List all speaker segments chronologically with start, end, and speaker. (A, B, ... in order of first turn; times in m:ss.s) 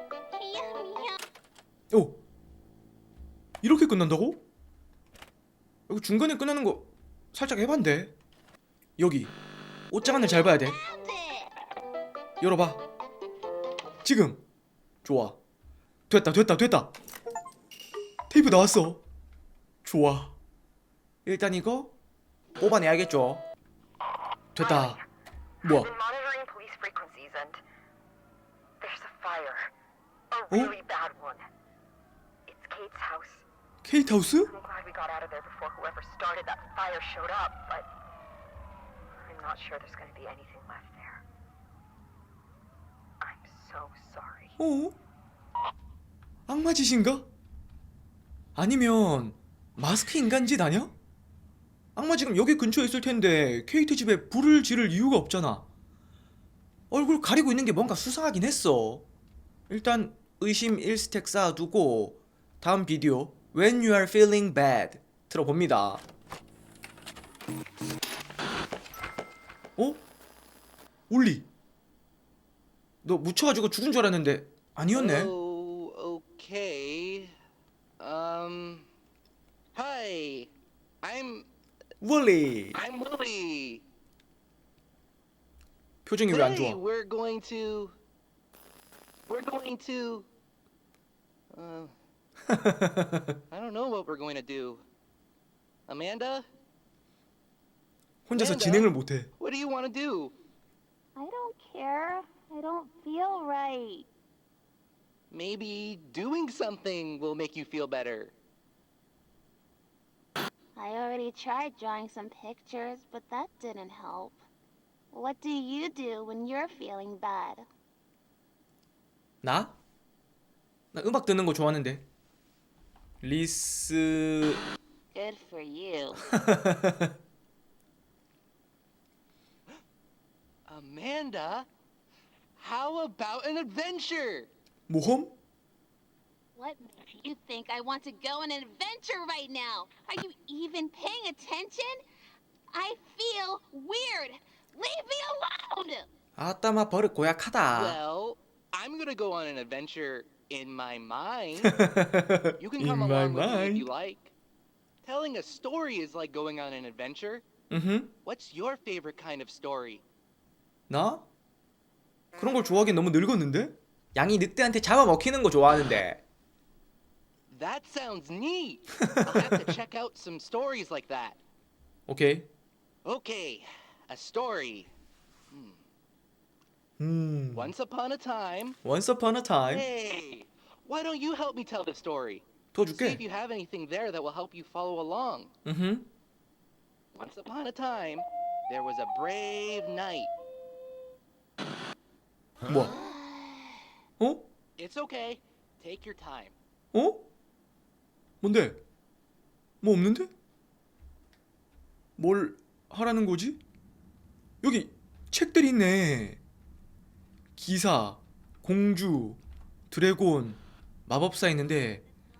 0:00.3-0:01.2 A
0:01.9-0:02.2 B
0:03.6-0:04.4 B
0:05.9-0:08.1 B
0:09.0-0:09.3 B
0:09.9-0:10.8 B
0:10.0-0:11.5 A
0:12.4-0:12.8 B
0:14.0-0:14.4 B
0:15.0-0:15.4 B
0:16.1-0:16.9 B
0:18.3-0:19.0 B
0:19.8-0:20.3 B
0:21.2-0:21.9 B
0:22.6-0:23.4 B
0:24.5-0:25.0 B
0:24.6-0:24.9 C
0:25.6-0:25.9 B
0:25.6-0:27.6 C
0:28.8-0:29.7 C
0:30.3-0:31.5 C
0:30.5-0:30.8 B
0:32.4-0:33.4 C
0:33.8-0:34.5 B
0:34.5-0:37.9 C
0:39.1-0:41.2 C
0:43.2-0:44.5 C
0:44.6-0:44.9 B
0:46.5-0:47.2 B
0:48.6-0:50.9 B
0:52.0-0:55.6 B
0:56.9-0:59.0 B
0:59.7-1:06.0 B
1:11.1-1:11.5 B
1:13.0-1:15.3 B
1:14.9-1:17.3 D
1:18.0-1:18.9 D
1:19.7-1:21.5 D
1:22.0-1:22.8 B
1:22.7-1:23.8 D
1:26.0-1:26.8 B
1:26.3-1:28.0 D
1:29.3-1:30.3 D
1:31.5-1:31.9 D
1:32.5-1:33.4 B
1:33.5-1:34.8 D
1:35.9-1:36.4 D
1:38.2-1:39.3 B
1:38.3-1:40.3 D
1:41.2-1:44.1 A
1:45.3-1:48.3 D
1:50.8-1:54.4 A
1:55.1-1:57.6 A
1:59.4-1:59.7 B
2:00.9-2:02.0 B
2:03.2-2:04.6 B
2:05.1-2:06.2 A
2:06.3-2:07.1 B
2:10.7-2:11.7 D
2:12.6-2:14.5 D
2:14.9-2:15.3 B
2:16.5-2:22.0 A
2:22.7-2:26.1 A
2:26.4-2:28.0 B
2:27.7-2:31.8 D
2:31.6-2:33.9 B
2:32.6-2:34.3 D
2:35.0-2:37.4 D
2:37.7-2:38.1 B
2:38.2-2:40.0 D
2:40.9-2:41.2 B
2:42.4-2:46.2 B
2:47.5-2:51.4 D
2:52.1-2:52.5 B
2:53.0-2:54.9 D
2:55.5-2:55.8 D
2:57.0-2:57.7 B
2:57.5-2:58.8 D
2:58.8-2:59.8 B
2:59.6-3:05.5 D
3:02.7-3:03.2 B
3:05.6-3:06.1 B
3:07.1-3:10.3 D
3:12.6-3:12.9 B
3:12.7-3:13.8 A
3:14.2-3:14.5 B
3:14.8-3:16.5 D
3:16.9-3:17.2 B
3:18.4-3:18.8 B
3:19.8-3:20.3 B
3:22.2-3:23.6 B
3:24.6-3:26.4 B
3:27.6-3:32.0 B